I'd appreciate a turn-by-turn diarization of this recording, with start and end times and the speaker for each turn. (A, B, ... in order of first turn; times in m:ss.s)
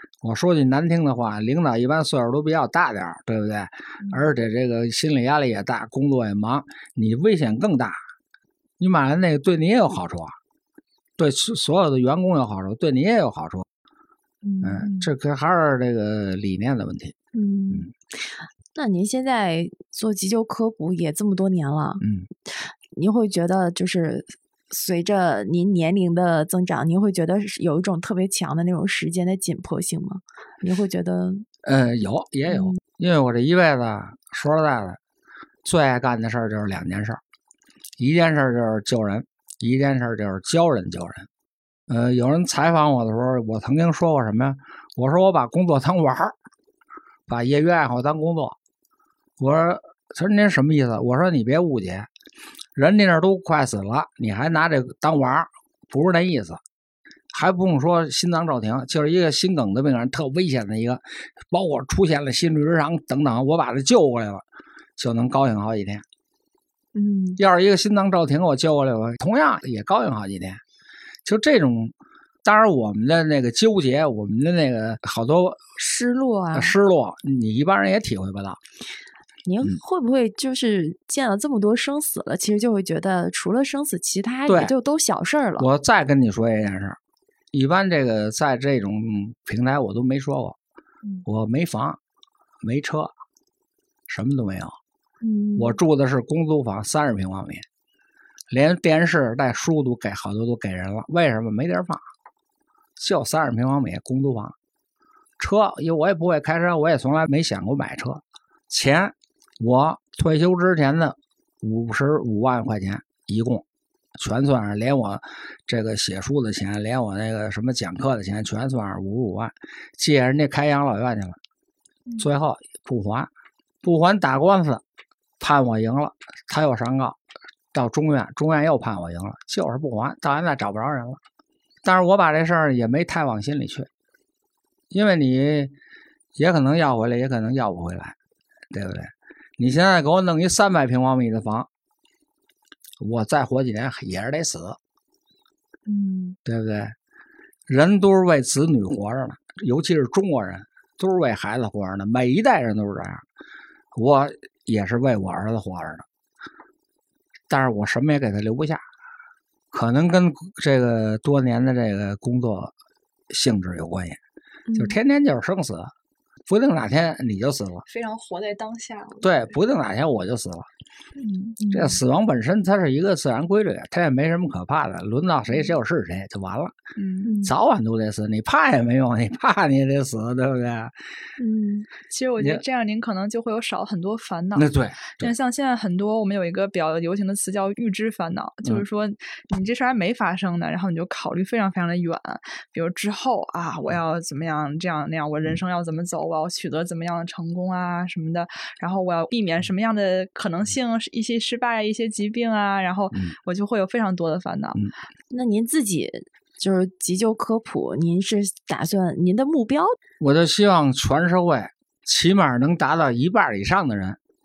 0:00.2-0:08.0 A
0:08.8-0:10.4 A
0:11.2-0:13.7 A
0:14.4-0:15.1 B
0:14.6-0:17.1 A
0:17.3-0:17.9 B
0:18.8-0:22.0 B
0:22.0-0:22.3 A
0:22.6-0:31.5 B
0:31.6-0:35.0 A
0:32.5-0:32.8 B
0:35.6-0:37.2 A
0:38.0-0:41.3 A
0:41.9-0:46.4 A
0:47.3-0:48.6 A
0:49.4-0:52.1 A
0:52.8-0:56.6 A
0:57.3-1:04.4 A
1:05.0-1:06.0 A
1:07.0-1:07.4 B
1:07.4-1:10.6 A
1:11.2-1:15.6 A
1:15.8-1:16.8 B
1:16.5-1:18.6 A
1:19.4-1:25.7 B
1:24.5-1:24.7 A
1:25.6-1:27.0 A
1:27.5-1:30.6 A
1:31.3-1:32.0 A
1:32.6-1:33.1 A
1:34.1-1:34.8 A
1:35.2-1:35.8 B
1:35.6-1:37.6 A
1:38.5-1:42.0 A
1:43.0-1:44.6 A
1:45.4-1:53.6 A
1:54.2-2:01.4 A
2:02.2-2:03.3 A
2:03.8-2:04.8 A
2:05.4-2:07.2 A
2:07.7-2:11.2 A
2:11.8-2:13.9 A
2:14.9-2:15.7 A
2:16.4-2:18.2 A
2:18.7-2:21.7 A
2:23.0-2:24.8 A
2:25.9-2:26.4 B
2:26.4-2:26.9 A
2:27.7-2:33.2 A
2:33.9-2:36.1 A
2:37.5-2:38.8 A
2:39.7-2:42.7 A
2:43.3-2:44.2 A
2:44.7-2:45.0 B
2:44.8-2:45.9 A
2:46.5-2:47.8 A
2:47.9-2:49.4 C
2:49.2-2:50.7 A
2:51.2-2:52.0 C
2:51.7-2:56.7 A
2:57.0-2:57.4 C
2:57.2-2:57.5 B
2:57.4-3:00.9 A
3:01.4-3:01.9 B
3:02.1-3:24.9 C
3:04.6-3:05.3 A
3:25.3-3:30.0 B
3:30.2-3:34.2 A